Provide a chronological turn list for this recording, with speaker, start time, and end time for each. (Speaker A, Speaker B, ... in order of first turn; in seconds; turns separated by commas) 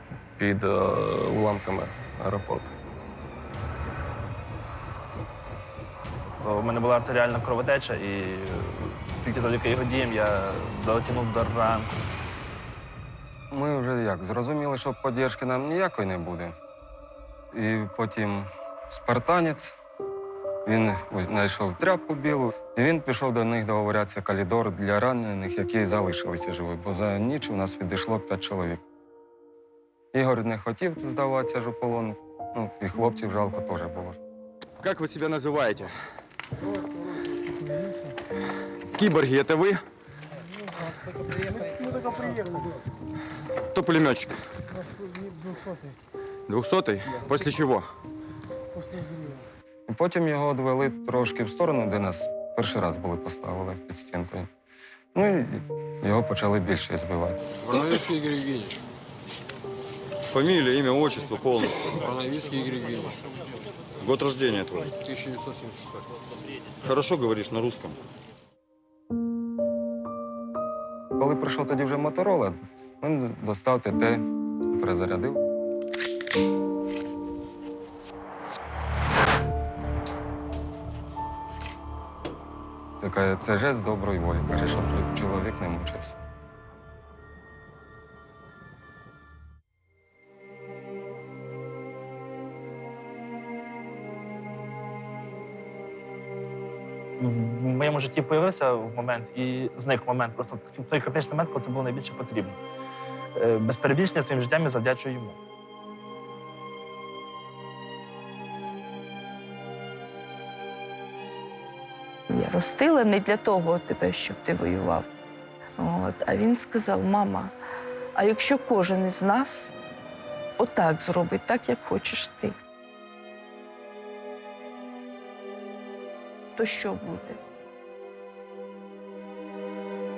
Speaker A: 0.4-2.7, Speaker B: 6.4-11.9, Speaker C: 13.5-16.6, Speaker C: 17.5-19.7, Speaker C: 20.6-28.8, Speaker C: 30.1-34.2, Speaker D: 34.8-35.9, Speaker D: 38.9-39.8, Speaker D: 43.7-44.4, Speaker D: 46.5-47.9, Speaker C: 49.9-54.5, Speaker C: 55.1-57.4, Speaker E: 58.1-58.8, Speaker D: 60.3-62.0, Speaker E: 62.0-63.3, Speaker D: 64.0-65.0, Speaker E: 65.1-66.0, Speaker D: 66.8-68.0, Speaker C: 71.2-75.4, Speaker C: 83.0-86.2, Speaker B: 97.2-102.6, Speaker B: 103.4-105.4, Speaker F: 112.3-115.0, Speaker F: 115.8-117.5, Speaker F: 118.2-119.7, Speaker F: 120.6-122.5, Speaker F: 126.6-127.4